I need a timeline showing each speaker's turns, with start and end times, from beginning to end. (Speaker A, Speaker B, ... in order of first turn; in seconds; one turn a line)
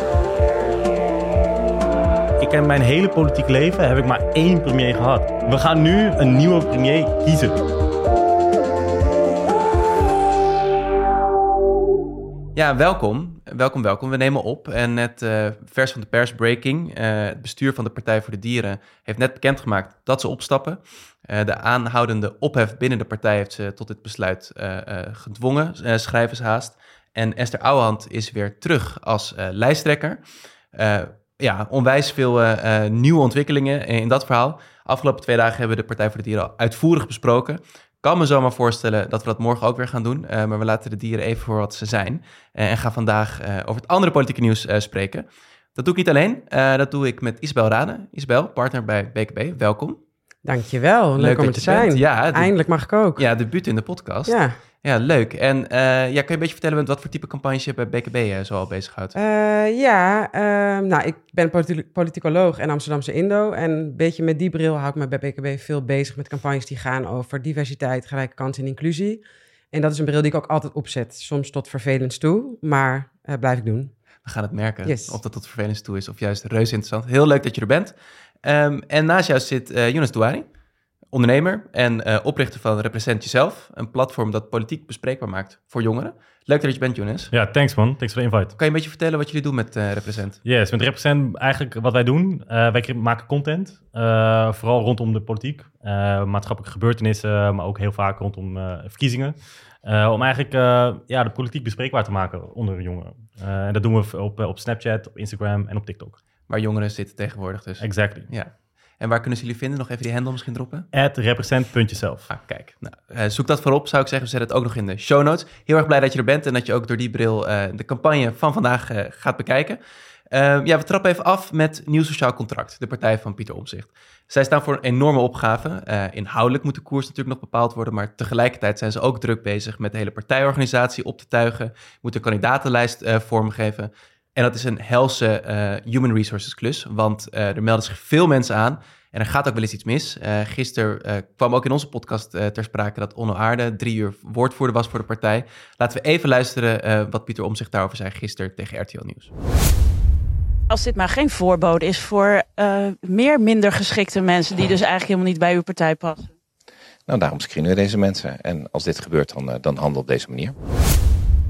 Speaker A: 2.4-7.7
Speaker B: 12.6-30.2
Speaker B: 30.7-50.0
Speaker C: 50.5-53.2
Speaker B: 51.2-52.5
Speaker B: 53.2-59.2
Speaker C: 54.3-54.5
Speaker C: 59.1-73.9
Speaker B: 74.2-80.5
Speaker C: 74.8-75.2
Speaker B: 81.1-87.3
Speaker A: 87.3-88.5
Speaker B: 88.6-90.4
Speaker A: 90.5-106.2
Speaker B: 106.5-110.9
Speaker A: 107.8-108.3
Speaker A: 110.9-112.3
Speaker B: 112.3-119.8
Speaker B: 120.3-149.3
Speaker D: 150.7-156.3
Speaker E: 157.1-160.6